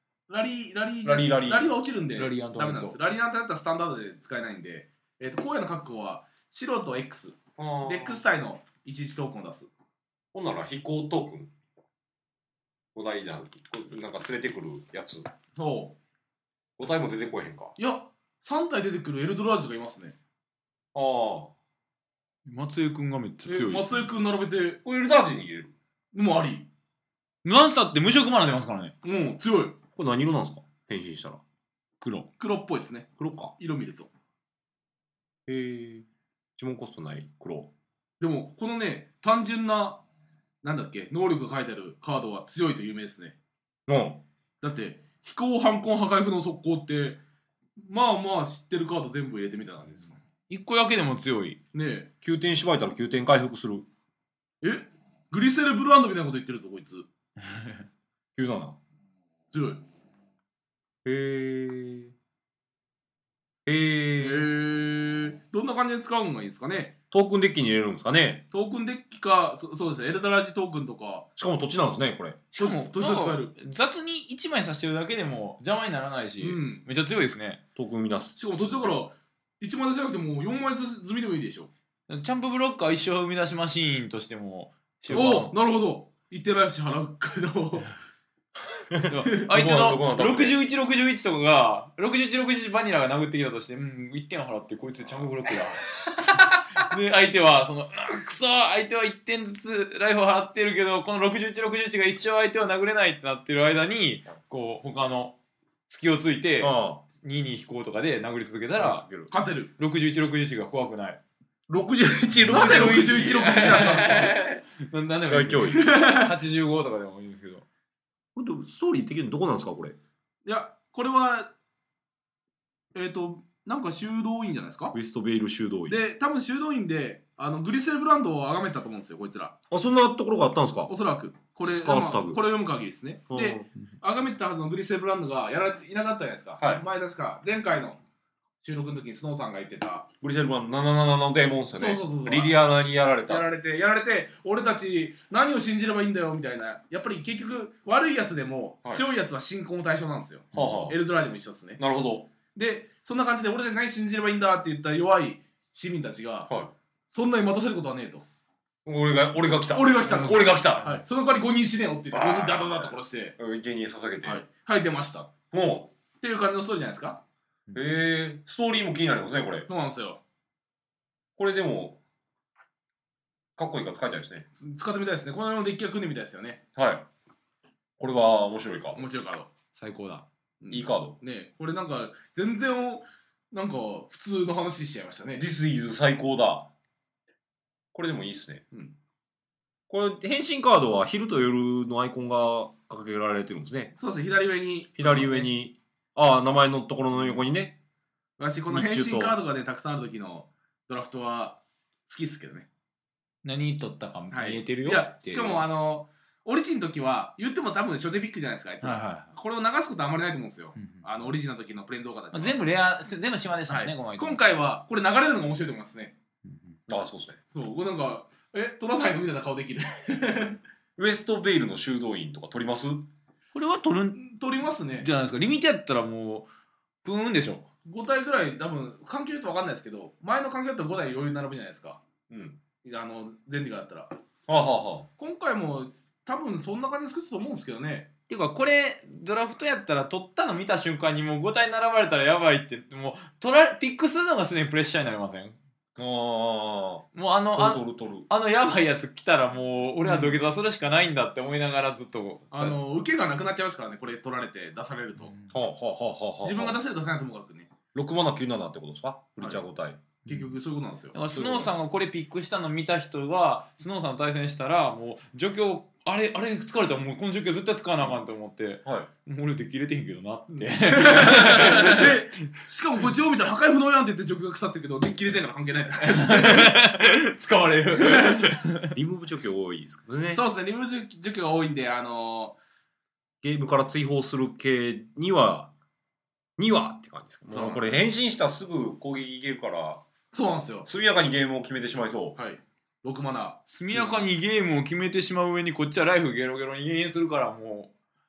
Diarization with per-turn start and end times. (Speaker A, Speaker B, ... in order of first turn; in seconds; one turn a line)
Speaker A: 0.3-9.7
Speaker B: 1.0-1.7
Speaker C: 2.1-3.0
Speaker B: 7.6-8.2
Speaker B: 10.3-11.5
Speaker B: 12.9-15.3
Speaker A: 15.6-15.9
Speaker B: 16.8-17.8
Speaker A: 17.8-20.1
Speaker B: 20.9-21.5
Speaker C: 22.4-24.1
Speaker A: 23.4-24.8
Speaker B: 24.8-25.7
Speaker A: 26.1-26.7
Speaker C: 27.4-28.9
Speaker A: 29.0-29.8
Speaker B: 29.9-31.4
Speaker C: 32.0-32.3
Speaker A: 32.4-34.1
Speaker B: 33.2-33.5
Speaker B: 35.5-36.0
Speaker B: 36.6-37.7
Speaker A: 38.2-40.0
Speaker A: 40.6-43.4
Speaker B: 43.9-44.2
Speaker A: 44.6-47.2
Speaker A: 47.8-50.2
Speaker C: 50.5-51.6
Speaker A: 51.7-52.1
Speaker B: 52.2-53.9
Speaker A: 54.6-57.0
Speaker B: 58.4-58.8
Speaker A: 59.5-59.8
Speaker B: 61.0-62.1
Speaker B: 63.6-64.5
Speaker A: 64.2-66.9
Speaker B: 67.1-68.4
Speaker A: 68.5-71.3
Speaker B: 71.4-72.4
Speaker A: 72.5-73.5
Speaker C: 72.6-77.6
Speaker A: 76.4-76.8
Speaker B: 77.8-79.0
Speaker A: 78.4-81.7
Speaker C: 82.1-85.5
Speaker A: 85.1-87.9
Speaker B: 88.9-90.6
Speaker C: 89.1-105.3
Speaker C: 105.9-109.0
Speaker B: 106.6-107.0
Speaker B: 108.8-109.3
Speaker A: 109.3-109.7
Speaker C: 109.8-111.2
Speaker B: 111.7-114.6
Speaker A: 112.5-114.3
Speaker C: 112.5-117.6
Speaker B: 115.3-115.8
Speaker A: 115.7-116.3
Speaker B: 118.3-120.0
Speaker A: 120.4-121.5
Speaker A: 122.9-125.0
Speaker B: 124.9-126.0
Speaker A: 125.9-129.5
Speaker B: 129.7-130.9
Speaker A: 130.9-138.0
Speaker B: 131.6-132.4
Speaker B: 133.3-133.7
Speaker A: 138.6-140.1
Speaker B: 140.2-143.4
Speaker A: 141.7-142.6
Speaker A: 143.3-151.8
Speaker B: 150.5-151.0
Speaker B: 151.8-152.3
Speaker A: 152.5-156.5
Speaker A: 157.1-158.2
Speaker B: 158.8-160.9
Speaker A: 159.7-163.3
Speaker B: 162.1-164.4
Speaker A: 164.2-165.3
Speaker B: 165.5-165.9
Speaker A: 166.2-167.2
Speaker B: 167.7-169.7
Speaker A: 169.7-170.2
Speaker B: 171.4-172.0
Speaker B: 173.6-174.4
Speaker A: 174.6-176.6
Speaker B: 176.8-177.1
Speaker B: 178.0-179.0
Speaker A: 178.9-179.5
Speaker C: 179.7-180.2
Speaker A: 180.6-185.4
Speaker B: 180.7-181.2
Speaker B: 185.3-186.7
Speaker B: 187.9-188.6
Speaker B: 189.9-193.9
Speaker A: 194.0-195.5
Speaker B: 195.0-197.8
Speaker A: 198.4-202.7
Speaker B: 198.7-199.3
Speaker C: 203.4-205.6
Speaker A: 204.3-212.6
Speaker C: 208.8-209.3
Speaker C: 210.8-211.0
Speaker C: 212.3-214.4
Speaker A: 213.7-216.1
Speaker C: 216.4-216.8
Speaker B: 216.9-217.4
Speaker A: 217.5-220.6
Speaker B: 221.0-223.1
Speaker C: 223.5-224.2
Speaker A: 224.1-225.1
Speaker C: 225.0-226.5
Speaker C: 227.0-227.7
Speaker A: 227.8-232.0
Speaker B: 232.3-232.6
Speaker A: 232.8-234.1
Speaker B: 234.5-235.1
Speaker A: 235.2-238.1
Speaker C: 238.3-245.6
Speaker B: 246.0-248.3
Speaker C: 247.1-252.8
Speaker A: 250.0-250.3
Speaker A: 252.5-255.3
Speaker C: 255.2-255.5
Speaker B: 255.5-256.8
Speaker A: 256.4-257.7
Speaker B: 257.9-260.0
Speaker A: 260.2-261.2
Speaker C: 261.1-272.1
Speaker B: 261.3-261.7
Speaker A: 270.5-276.8
Speaker C: 276.0-278.9
Speaker A: 278.0-278.5
Speaker B: 278.9-280.4
Speaker A: 280.3-282.6
Speaker B: 283.4-285.7
Speaker B: 286.6-290.0
Speaker A: 287.5-288.0
Speaker A: 290.3-290.9
Speaker B: 290.9-292.4
Speaker A: 292.4-294.2
Speaker C: 293.7-297.9